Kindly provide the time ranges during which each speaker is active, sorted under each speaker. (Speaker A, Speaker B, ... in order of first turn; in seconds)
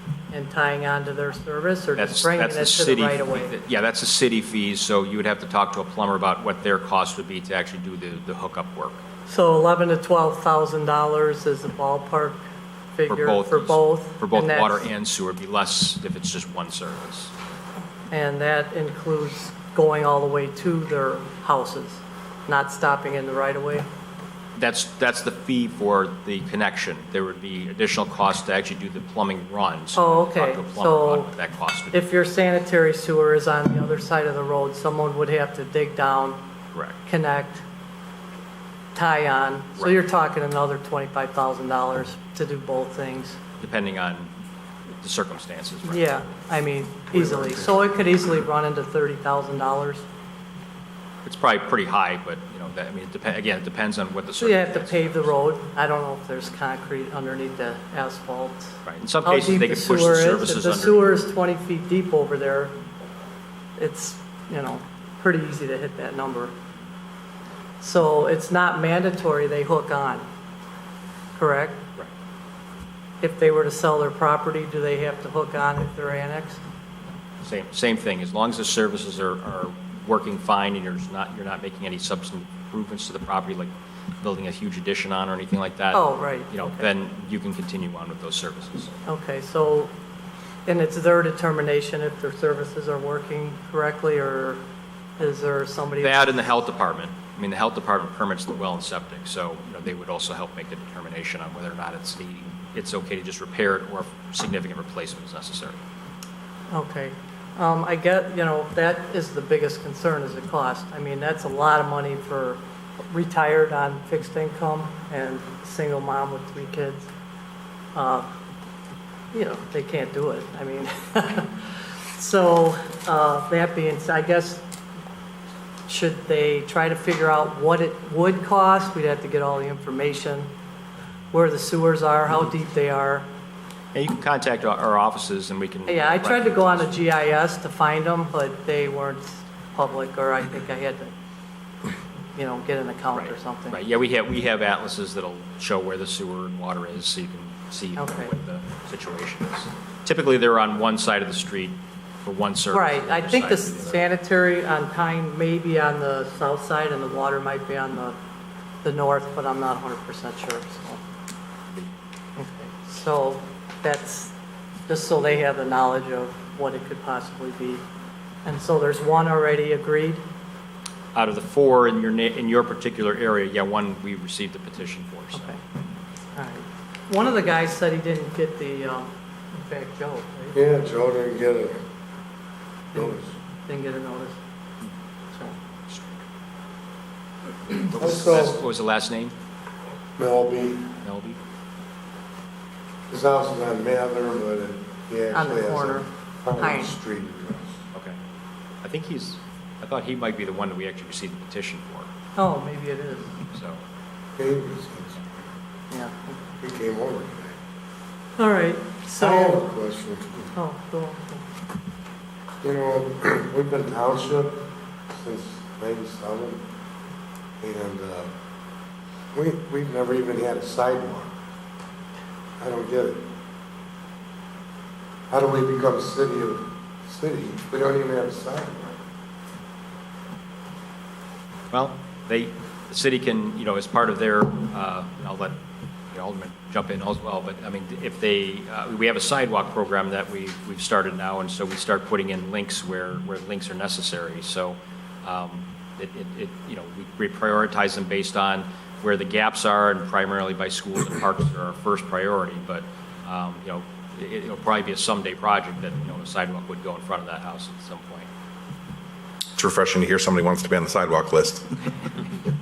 Speaker A: 0.3-3.5, 9.3-12.4, 12.9-14.8, 18.1-23.9, 29.9-31.3, 31.9-36.4, 37.0-37.6, 38.9-43.4, 45.9-50.0, 54.4-62.7, 63.8-66.5, 67.8-70.2, 71.4-71.8, 73.2-76.6, 85.9-86.8, 89.0-89.9, 90.7-94.6, 95.2-96.2, 106.7-117.1, 117.9-118.3, 119.3-124.6, 125.9-130.5, 131.3-133.3, 135.9-141.1, 142.3-143.8, 148.0-148.3, 152.7-158.2, 158.8-161.0, 162.4-164.3, 164.9-167.8, 168.4-170.2, 176.3-180.6, 182.9-184.4, 195.3-196.1, 196.6-196.9, 202.3-203.3, 205.9-206.4, 208.4-209.6, 210.5-211.4
Speaker B: 2.0-9.0, 13.1-17.3, 24.6-32.0, 36.7-37.0, 43.6-44.3, 45.0-46.1, 51.2-55.3, 58.8-61.1, 77.4-89.0, 96.0-105.8, 133.9-136.9, 143.1-154.0, 171.1-175.6, 185.9-186.2, 187.8-189.3, 191.0-191.4, 197.9-198.2, 198.8-202.1, 203.5-203.8, 231.7-235.6, 236.1-258.3
Speaker C: 47.1-47.8, 180.5-181.8, 182.9-183.3, 187.9-188.6, 190.2-190.9, 193.1-197.8, 204.3-205.5, 206.6-207.6, 209.2-210.5, 212.6-214.6, 215.1-216.6, 217.6-218.3, 219.3-221.3, 222.6-223.2, 225.3-229.0
Speaker D: 259.6-261.6